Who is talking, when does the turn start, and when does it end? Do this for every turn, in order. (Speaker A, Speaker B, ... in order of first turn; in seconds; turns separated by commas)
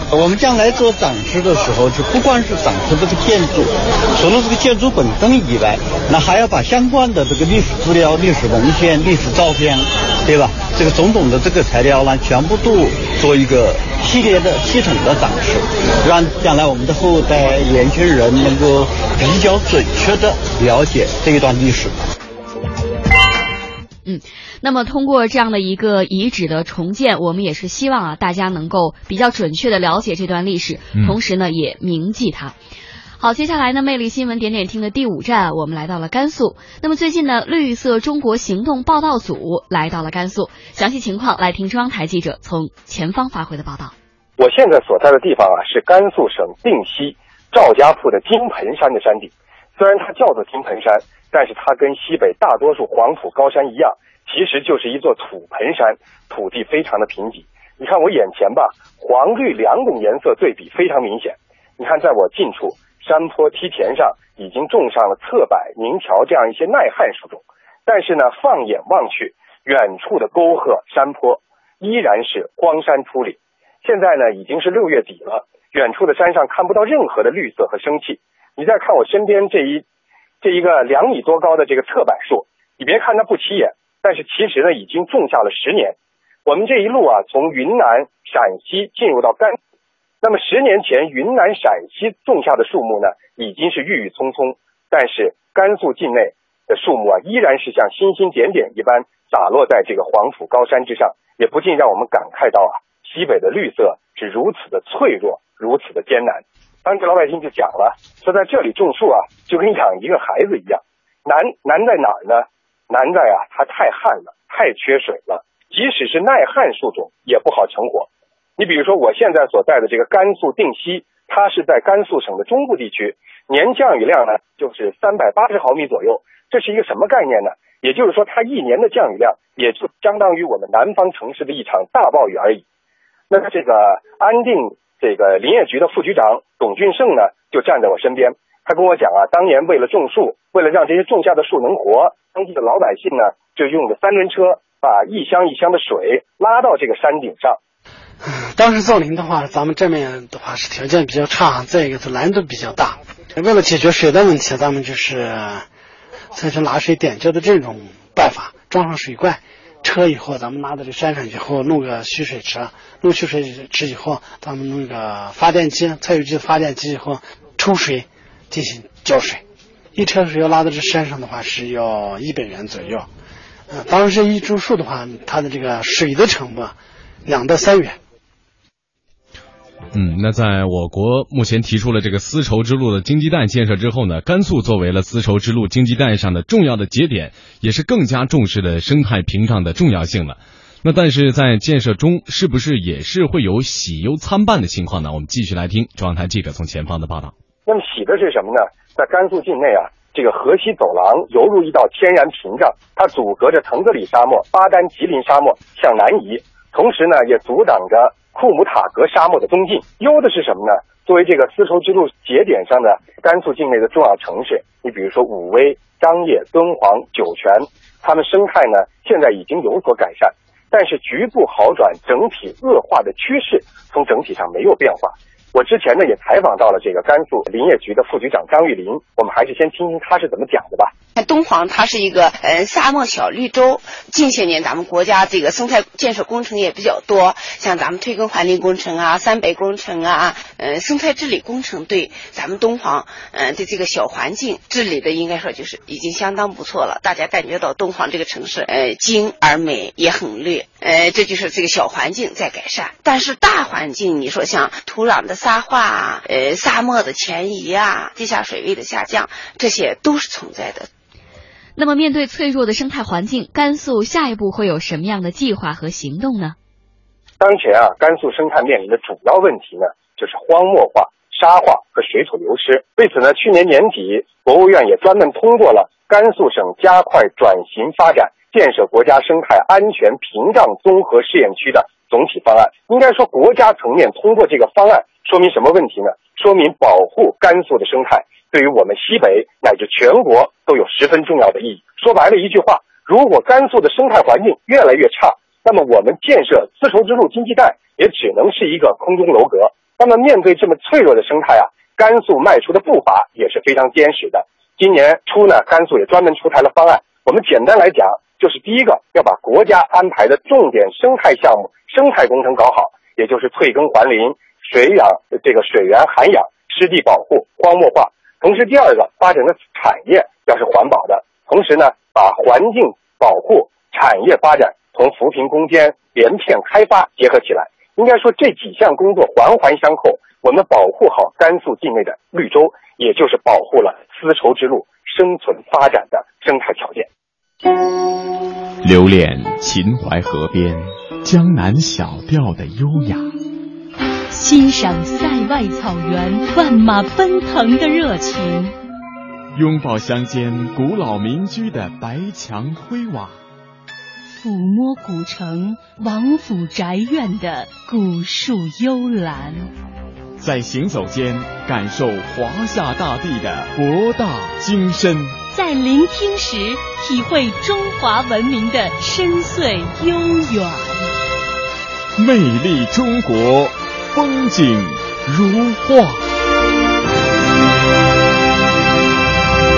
Speaker A: 0.1-22.0, Speaker B: 24.0-32.5, Speaker B: 33.2-43.9, Speaker C: 44.4-79.8, Speaker C: 80.4-85.9, Speaker C: 86.5-89.6, Speaker C: 90.2-132.6, Speaker C: 133.3-147.6, Speaker D: 148.2-155.7, Speaker D: 156.3-169.4, Speaker D: 169.9-173.1, Speaker D: 173.7-178.0, Speaker E: 179.9-197.3, Speaker C: 197.7-230.9, Speaker F: 231.2-260.9, Speaker B: 261.8-266.5, Speaker C: 267.4-337.1, Speaker G: 338.8-343.3, Speaker H: 344.3-348.7, Speaker G: 349.5-353.4, Speaker H: 354.4-359.7, Speaker G: 360.4-365.4, Speaker H: 365.5-371.1, Speaker G: 372.1-376.2